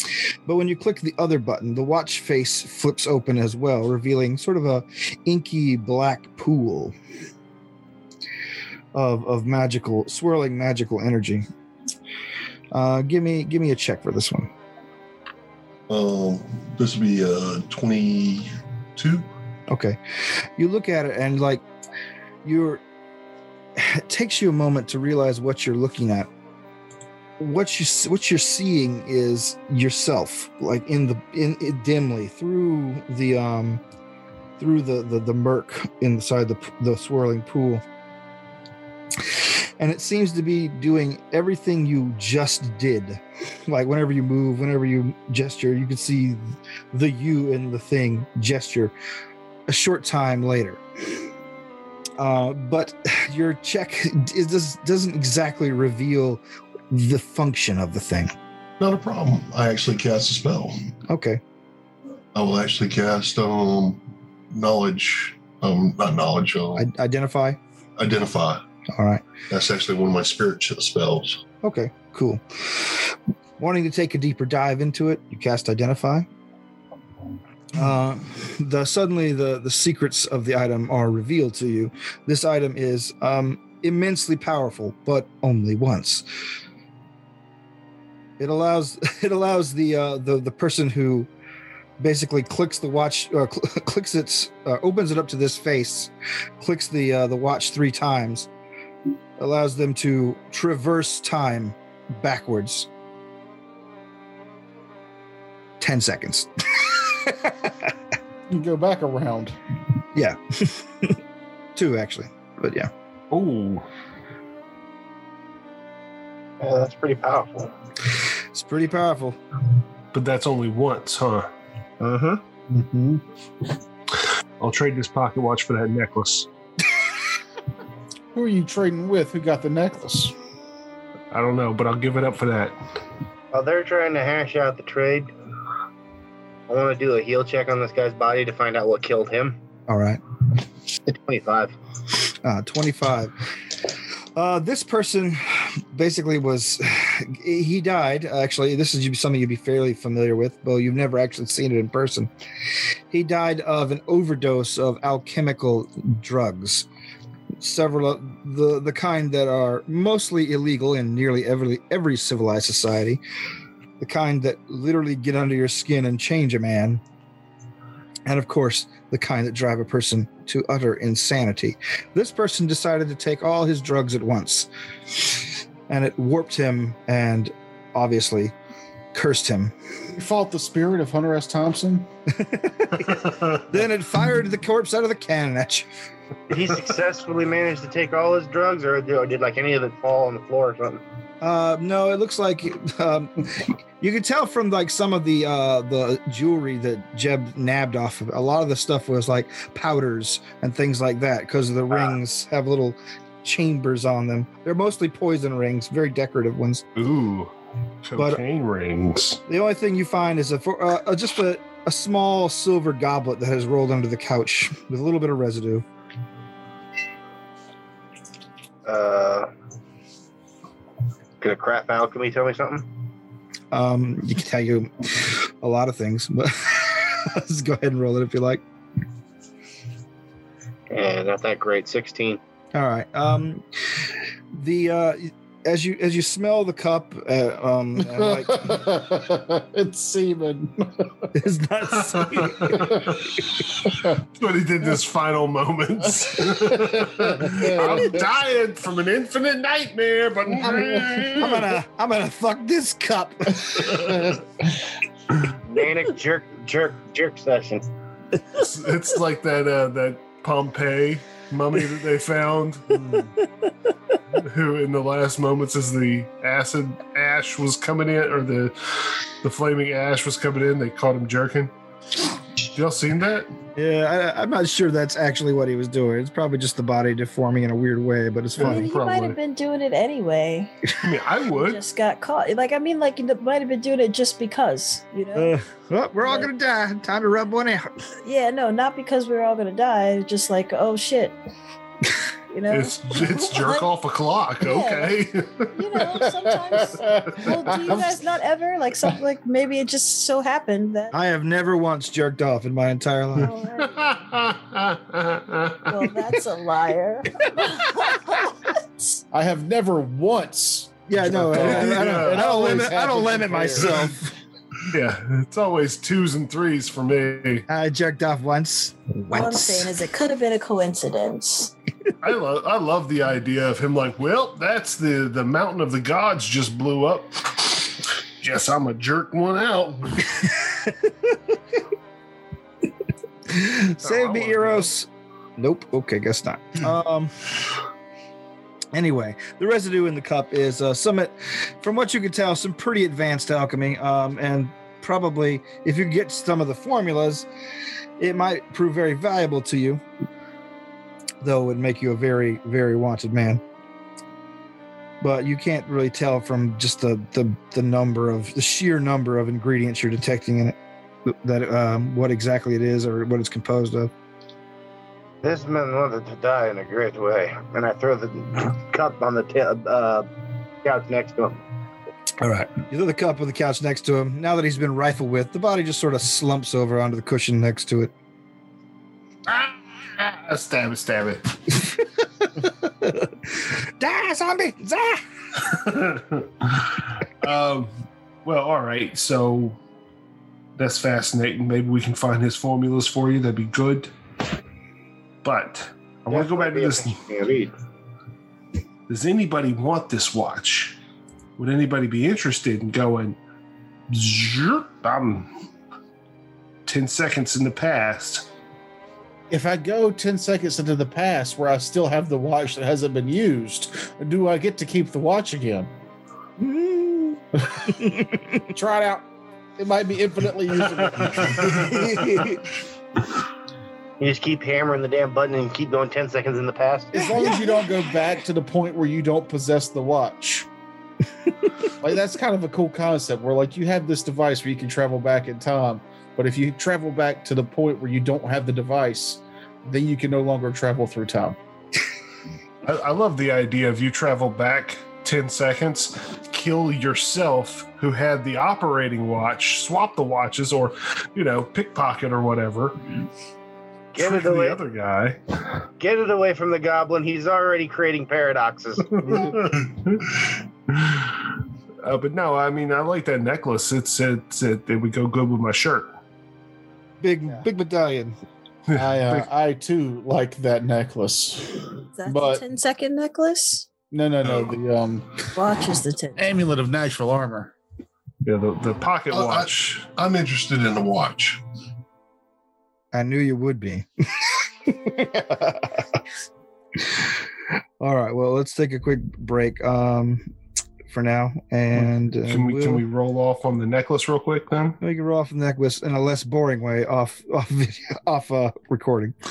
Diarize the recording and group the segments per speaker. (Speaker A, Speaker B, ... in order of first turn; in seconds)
Speaker A: 0.5-6.9, 8.9-11.4, 12.7-14.5, 19.7-21.6, 22.4-22.8, 23.8-26.3, 27.4-33.8, 34.6-37.8, 39.1-48.9, 49.7-51.2, 52.2-58.3, 61.1-61.4, 66.8-67.6, 68.9-69.2, 71.6-76.2, 77.7-86.2, 88.4-91.3, 92.0-98.5, 99.4-102.9, 105.8-107.9, 110.1-111.2, 111.8-112.9, 118.5-119.4, 139.9-140.2, 142.4-143.3, 144.3-156.8, 157.6-163.2, 164.0-167.0, 168.2-178.5, 179.1-179.7, 182.3-185.9, 191.4-206.8, 208.1-208.4, 209.5-215.8, 223.7-228.6, 232.7-233.6, 234.5-238.8, 241.3-242.9, 251.3-254.2, 273.8-278.9, 285.3-287.9, 301.1-303.5, 311.1-314.3, 317.7-319.9, 330.5-331.3, 333.5-337.6, 338.9-347.5, 348.2-350.0, 351.4-353.6, 355.2-364.1, 372.4-378.1, 382.6-385.2, 416.6-418.7, 421.6-422.6, 427.1-428.4, 467.2-468.4, 483.1-486.2, 486.9-487.3, 488.0-490.5, 491.1-493.0, 495.0-499.4
Speaker B: 15.9-19.3, 58.8-60.9, 62.3-66.8, 68.0-68.6, 69.5-71.4, 479.3-481.6
Speaker C: 108.5-109.6, 122.7-123.2, 128.3-130.3, 180.1-182.1, 238.0-241.3, 242.7-243.1, 246.5-248.1, 262.9-263.4, 296.8-297.5, 309.3-314.1, 409.5-415.9, 418.7-419.2, 419.8-422.0, 427.1-430.7, 432.0-441.6, 468.9-472.6, 474.1-475.5, 476.4-477.7
Speaker D: 113.3-113.9, 120.1-121.5, 124.6-126.5, 131.3-132.8, 206.9-209.4, 242.0-251.7, 258.5-262.9, 264.3-271.7, 272.6-273.5, 278.6-279.4, 281.0-281.8, 292.7-296.2, 303.4-306.0, 311.6-312.4, 314.9-317.6, 322.2-330.3, 334.0-334.9, 379.5-381.7, 385.6-389.8, 390.8-394.1, 395.4-397.2, 399.1-401.0, 401.6-403.4, 404.1-405.5, 406.9-408.5, 421.4-422.5, 442.8-453.0, 454.2-455.4, 459.1-460.3, 460.9-461.4, 462.0-466.1, 468.9-469.4, 478.4-480.0, 492.0-495.0
Speaker E: 116.6-117.7, 122.0-122.4, 133.5-135.3, 136.7-139.6, 141.1-141.8, 186.5-191.0, 218.8-219.5, 221.4-222.9, 230.9-232.4, 255.6-257.9, 365.4-370.3, 370.8-371.6, 396.3-397.7, 424.2-427.3, 454.1-454.8, 456.0-459.6
Speaker F: 278.6-280.7, 281.4-285.6, 286.2-286.5, 288.2-291.4, 292.5-293.9, 294.6-295.2, 295.7-301.1, 303.4-304.2, 305.9-307.9, 319.3-321.7, 472.2-473.9, 475.5-476.5